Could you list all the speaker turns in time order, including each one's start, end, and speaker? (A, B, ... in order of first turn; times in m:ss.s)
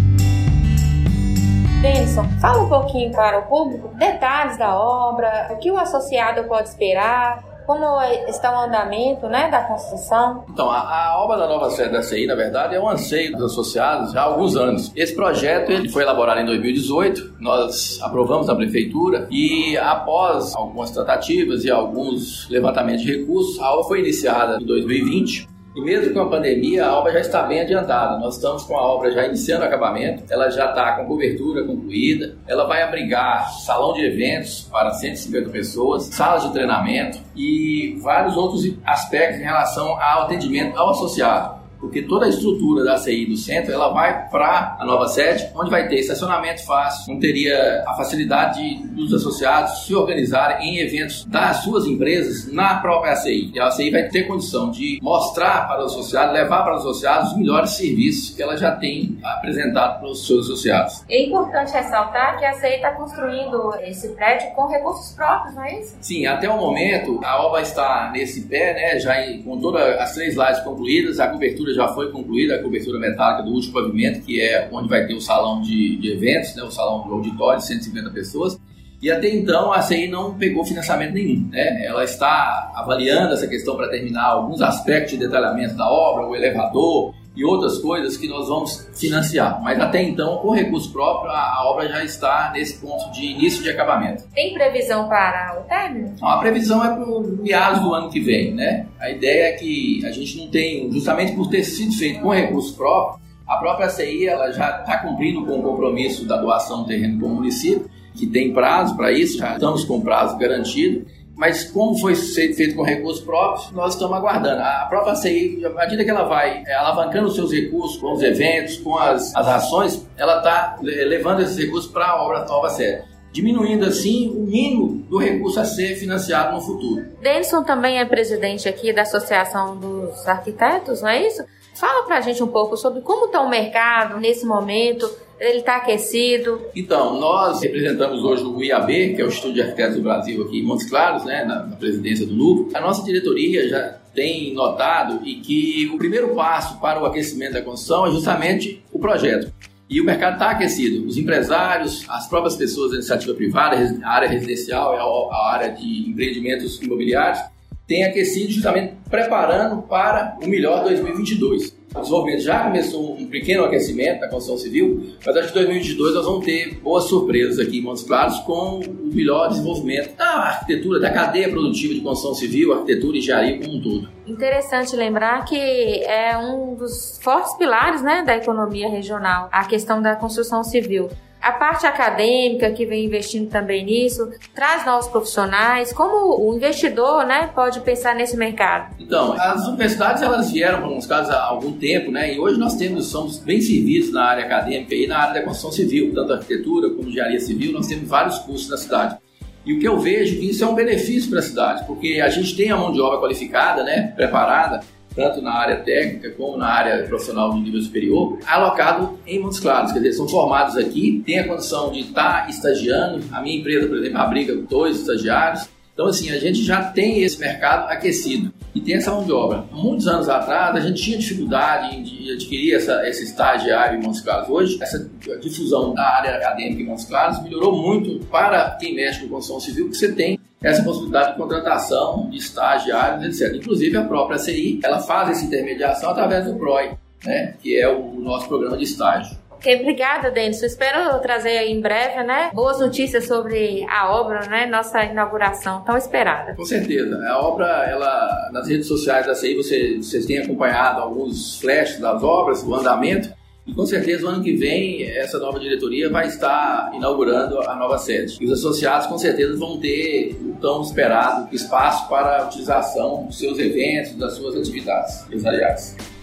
0:01.8-0:10.4 A
0:10.5-1:01.0 B
1:01.1-1:06.0 A
1:06.0-1:34.2 B
1:34.3-1:36.2 A
1:36.2-2:07.1 B
2:07.2-2:16.7 A
2:16.7-2:54.1 B
2:54.2-3:08.9 A
3:09.0-3:59.4 B
3:59.6-4:06.6 A
4:06.6-4:26.0 B